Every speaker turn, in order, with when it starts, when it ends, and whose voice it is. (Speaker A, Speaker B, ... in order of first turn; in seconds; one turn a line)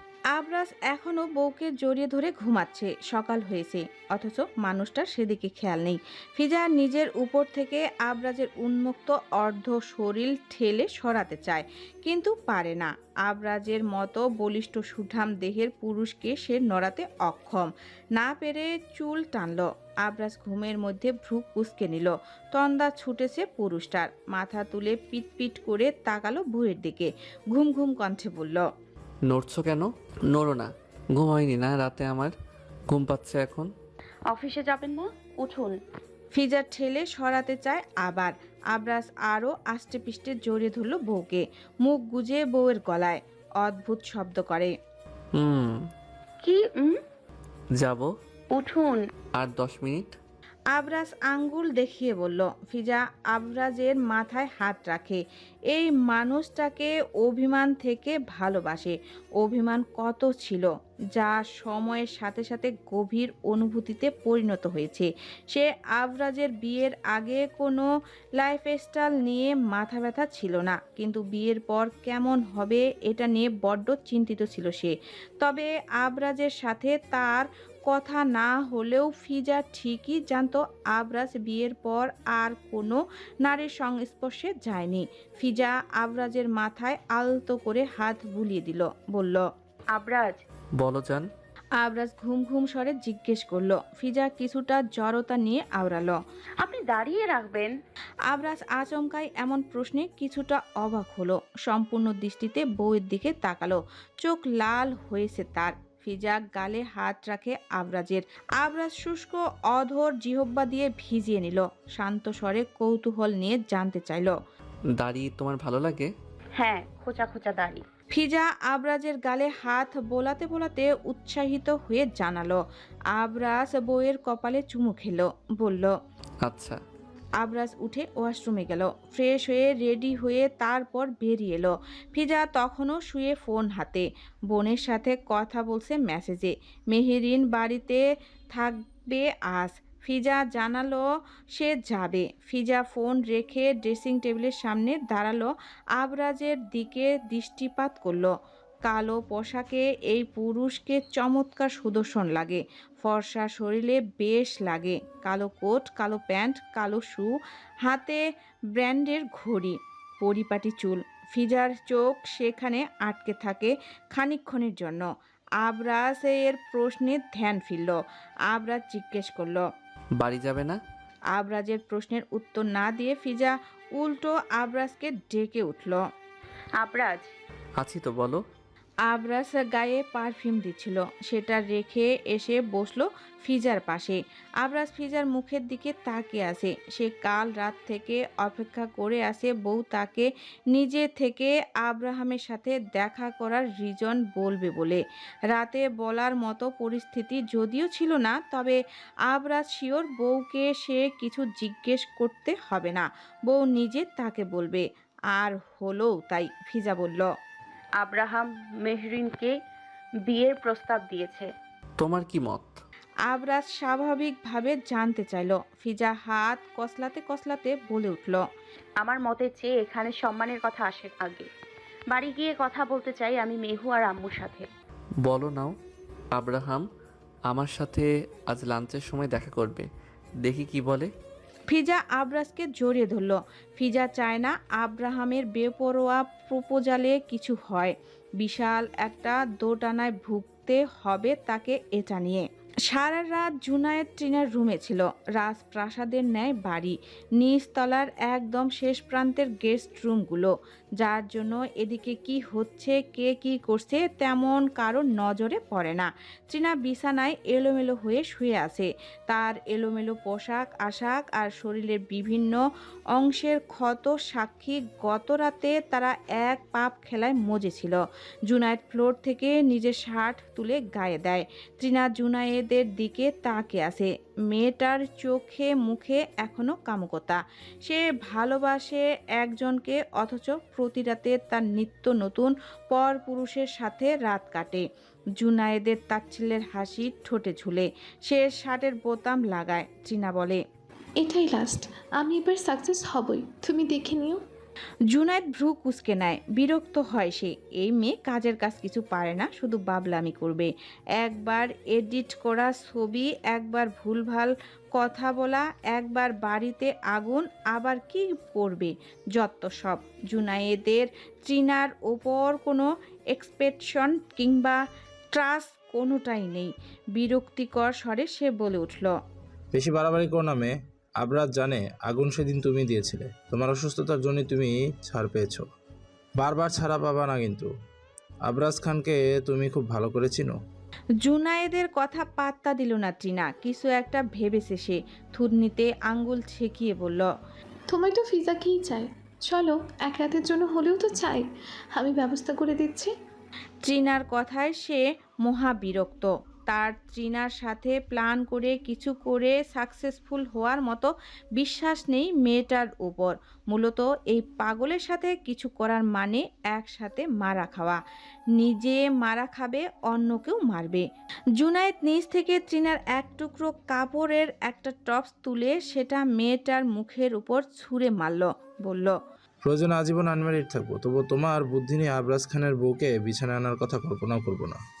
Speaker A: 0.3-28.6
Speaker B: 29.3-32.3
Speaker B: 32.9-33.7
Speaker C: 34.3-35.7
Speaker A: 36.3-44.7
Speaker B: 45.3-45.8
Speaker C: 46.4-47.0
Speaker B: 47.8-48.1
Speaker C: 48.5-49.0
Speaker B: 49.3-50.1
Speaker A: 50.7-67.9
Speaker A: 68.4-89.4
Speaker C: 89.9-90.4
Speaker B: 90.8-91.2
Speaker A: 91.8-96.2
Speaker C: 96.6-97.7
Speaker A: 98.3-114.3
Speaker B: 115.0-116.1
Speaker C: 116.6-117.8
Speaker A: 118.1-122.6
Speaker A: 123.1-125.9
Speaker B: 126.4-126.8
Speaker A: 127.4-148.3
Speaker A: 148.9-158.2
Speaker A: 158.7-165.1
Speaker A: 165.6-168.0
Speaker A: 168.5-169.6
Speaker B: 170.2-170.8
Speaker A: 171.3-176.0
Speaker C: 176.8-177.3
Speaker B: 177.8-178.4
Speaker A: 179.1-195.0
Speaker A: 195.5-207.3
Speaker C: 208.0-209.5
Speaker C: 210.3-211.5
Speaker B: 212.0-212.8
Speaker A: 213.3-218.4
Speaker C: 219.0-221.5
Speaker C: 222.1-224.7
Speaker B: 225.2-225.7
Speaker B: 226.3-226.8
Speaker B: 227.5-229.9
Speaker B: 230.4-231.1
Speaker A: 231.7-262.6
Speaker A: 263.1-284.8
Speaker A: 285.4-290.6
Speaker D: 291.2-294.4
Speaker A: 295.1-314.8
Speaker A: 315.3-319.1
Speaker E: 319.7-325.7
Speaker E: 326.4-327.7
Speaker E: 328.4-330.6
Speaker A: 331.2-337.3
Speaker D: 337.9-343.1
Speaker A: 343.8-358.0
Speaker A: 358.6-361.0
Speaker A: 361.6-369.1
Speaker E: 369.6-374.8